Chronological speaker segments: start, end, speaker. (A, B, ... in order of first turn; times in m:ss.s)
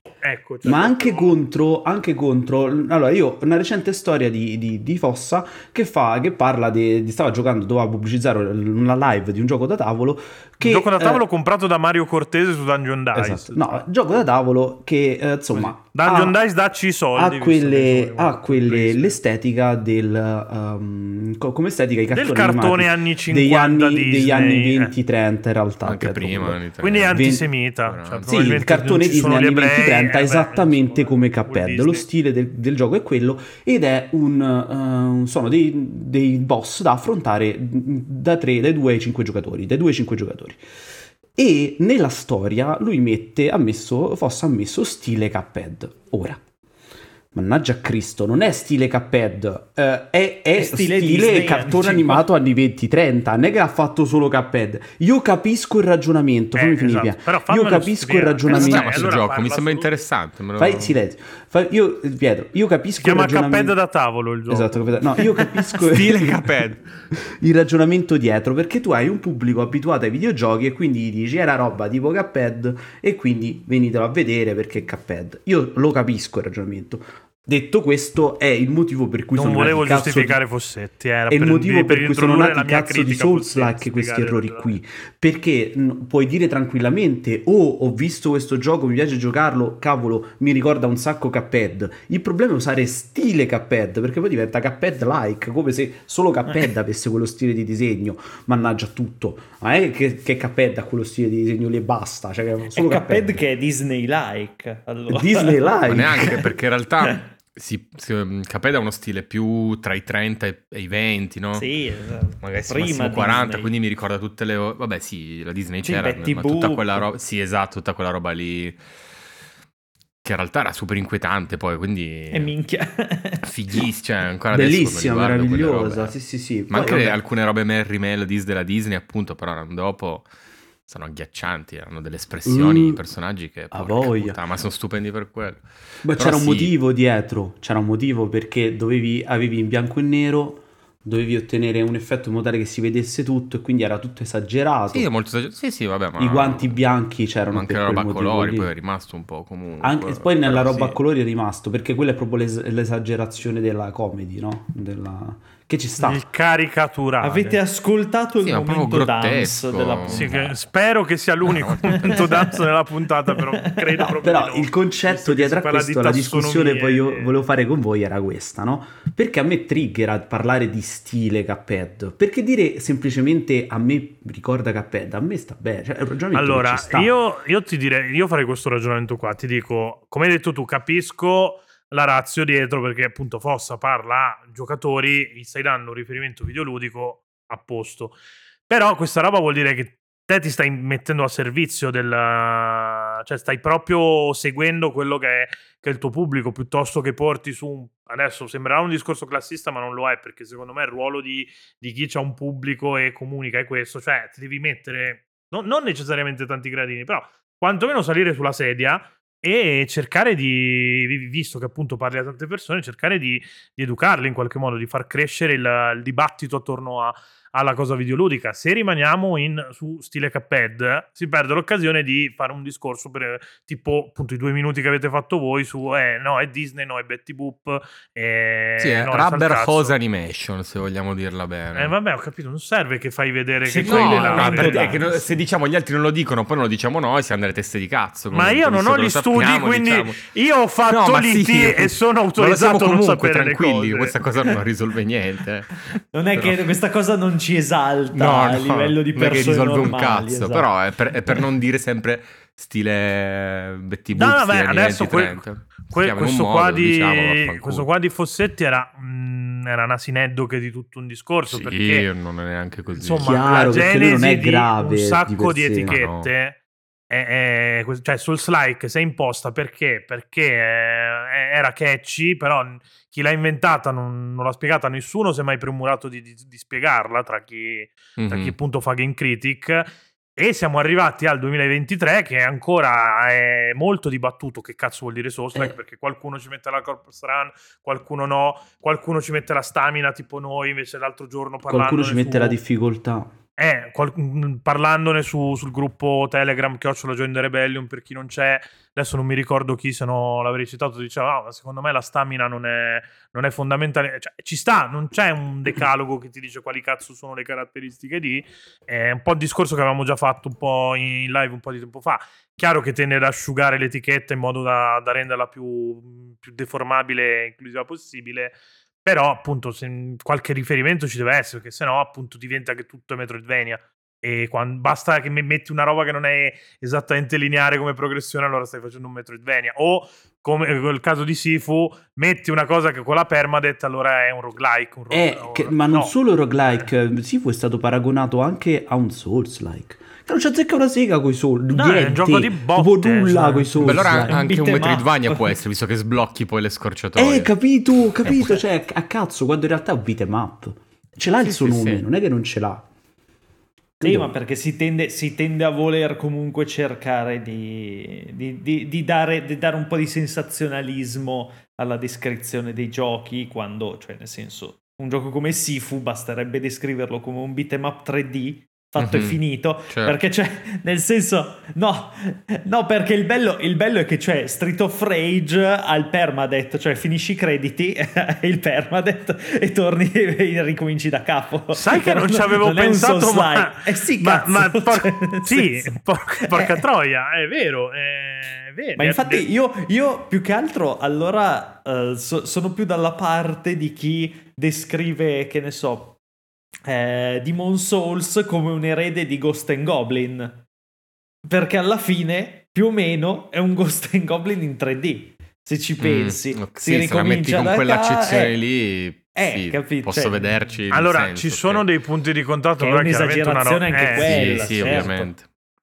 0:00.2-0:01.4 A
0:00.6-0:11.2 B
0:10.6-0:13.8 A
0:13.1-0:16.4 B
0:15.5-0:19.2 A
0:17.1-0:27.5 B
0:22.1-0:24.9 A
0:25.8-0:27.2 C
0:26.8-0:32.0 A
0:27.8-0:28.4 C
0:28.3-0:40.6 B
0:41.4-0:46.4 B
0:47.3-0:59.2 B
0:50.6-0:52.3 D
0:56.6-1:00.0 A
0:58.5-1:01.0 C
1:00.6-1:03.8 B
1:03.0-1:05.0 A
1:04.5-1:20.4 B
1:05.8-1:06.8 C
1:19.4-1:24.7 A
1:21.3-1:43.4 B
1:42.7-1:47.2 D
1:45.1-1:46.4 B
1:45.9-1:51.7 C
1:51.6-1:53.7 D
1:52.4-1:58.8 C
1:55.8-1:57.1 D
2:00.2-2:02.5 C
2:02.3-2:03.8 D
2:03.4-2:06.2 C
2:04.5-2:07.2 B
2:06.7-2:10.3 C
2:10.9-2:16.7 C
2:12.4-2:13.0 B
2:13.7-2:14.4 B
2:16.0-2:25.1 B
2:24.9-2:26.8 C
2:26.2-2:28.7 B
2:27.5-2:31.0 C
2:29.8-2:36.2 B
2:36.0-2:37.6 A
2:37.2-2:40.6 D
2:38.4-2:40.4 C
2:40.1-2:47.3 A
2:41.4-2:42.5 C
2:41.9-2:42.5 D
2:43.3-2:44.0 D
2:44.0-2:57.2 B
2:56.3-3:08.2 A
3:08.7-3:50.0 A
3:48.8-3:51.9 C
3:51.8-3:55.0 A
3:53.6-3:55.2 D
3:53.8-4:00.2 C
3:58.3-4:04.2 A
4:00.9-4:06.7 C
4:05.9-4:10.7 D
4:08.1-4:17.9 C
4:14.1-4:22.1 A
4:21.5-4:23.4 C
4:23.0-4:52.6 A
4:23.2-4:26.0 B
4:25.9-4:26.3 C
4:38.2-4:38.5 C
4:51.7-4:53.3 B
4:53.6-5:36.1 A
5:35.1-5:44.4 B
5:41.7-5:44.2 A
5:43.8-5:47.5 C
5:44.2-5:45.6 D
5:47.2-5:52.9 B
5:48.2-5:48.6 C
5:51.4-5:52.0 C
5:54.0-5:54.3 B
5:54.0-6:26.8 D
6:09.0-6:10.2 C
6:21.7-6:29.5 A
6:29.0-6:36.2 D
6:36.8-6:40.7 D
6:41.5-6:48.6 D
6:46.0-6:51.9 C
6:49.4-6:50.6 D
6:50.9-6:55.1 A
6:52.8-6:55.3 D
6:54.2-6:55.4 C